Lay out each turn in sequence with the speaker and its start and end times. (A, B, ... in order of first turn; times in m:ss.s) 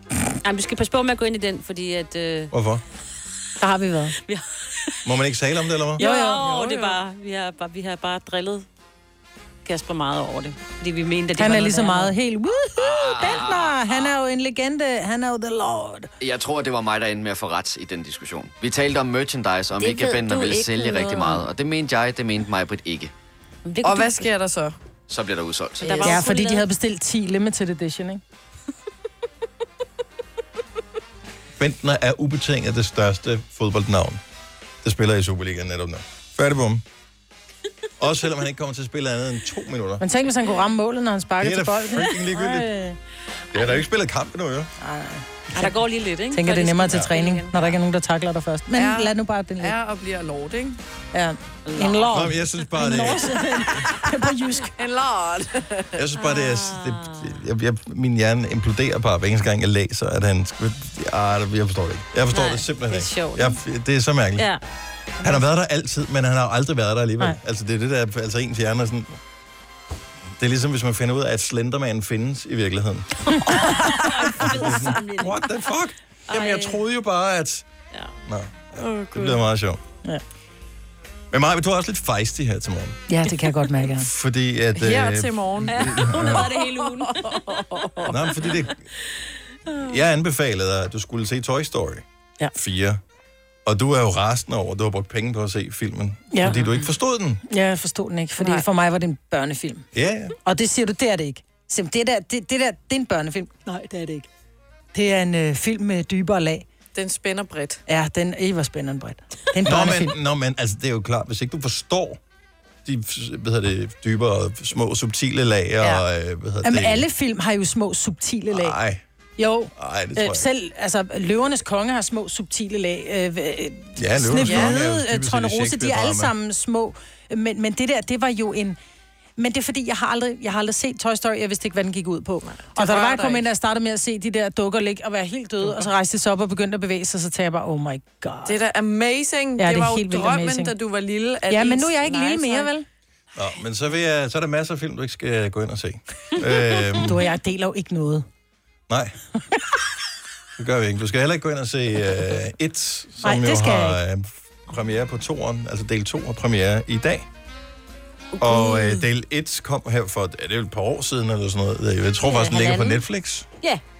0:00.4-0:02.5 A
0:02.5-0:02.8 B
0:03.6-0:04.2 C
0:04.2-0:04.9 A
0:05.0-0:06.0 B
0:06.0-0:08.6 A
0:06.0-0:06.4 C
0:06.0-0:07.0 D
0:09.6-0:12.1 A
0:11.4-0:16.1 C
0:12.8-0:14.1 E
0:16.2-0:23.1 E
0:19.8-0:21.5 A
0:23.6-0:24.3 A
0:23.8-0:24.7 D
0:25.1-0:26.1 E
0:25.8-0:26.6 A
0:25.8-0:26.2 D
0:26.0-0:28.2 C
0:31.6-0:34.2 B
0:34.8-0:36.8 B
0:38.0-0:40.0 B
0:40.0-0:43.0 C
0:41.4-0:42.7 B
0:43.5-0:44.7 B
0:44.8-0:45.7 C
0:45.5-0:47.8 A
0:46.3-0:49.7 C
0:48.7-0:50.8 D
0:51.1-0:54.8 C
0:51.6-0:52.4 A
0:52.1-0:53.4 B
0:54.8-0:55.9 D
0:55.9-1:04.5 B
0:56.2-0:57.4 A
1:02.3-1:03.6 A
1:05.2-1:09.2 B
1:10.4-1:13.1 B
1:13.4-1:14.1 C
1:13.6-1:15.5 A
1:14.4-1:17.6 B
1:16.3-1:16.8 A
1:18.2-1:19.8 B
1:18.8-1:19.4 D
1:21.3-1:23.0 B
1:23.1-1:24.1 C
1:23.9-1:26.5 B
1:24.8-1:28.1 D
1:25.7-1:27.8 A
1:28.1-1:28.7 B
1:28.4-1:28.6 A
1:29.8-1:33.0 B
1:33.6-1:37.4 B
1:36.3-1:36.8 C
1:37.5-1:39.9 C
1:39.9-1:40.3 B
1:40.4-1:44.3 C
1:44.9-1:46.6 C
1:46.9-1:47.8 D
1:47.9-1:50.1 C
1:49.6-1:52.2 B
1:52.8-1:57.0 B
1:56.6-1:58.8 C
1:58.5-1:59.0 B
1:59.4-2:08.8 C
1:59.7-2:00.5 B
2:04.0-2:06.3 B
2:04.4-2:04.8 D
2:09.4-2:18.6 C
2:12.4-2:13.4 D
2:18.4-2:22.7 D
2:19.6-2:20.7 C
2:21.5-2:22.8 C
2:23.3-2:27.2 B
2:27.0-2:28.2 C
2:28.9-2:29.1 B
2:30.6-2:37.3 B
2:33.2-2:34.0 C
2:38.4-2:43.4 B
2:38.4-2:39.0 A
2:42.2-2:43.0 A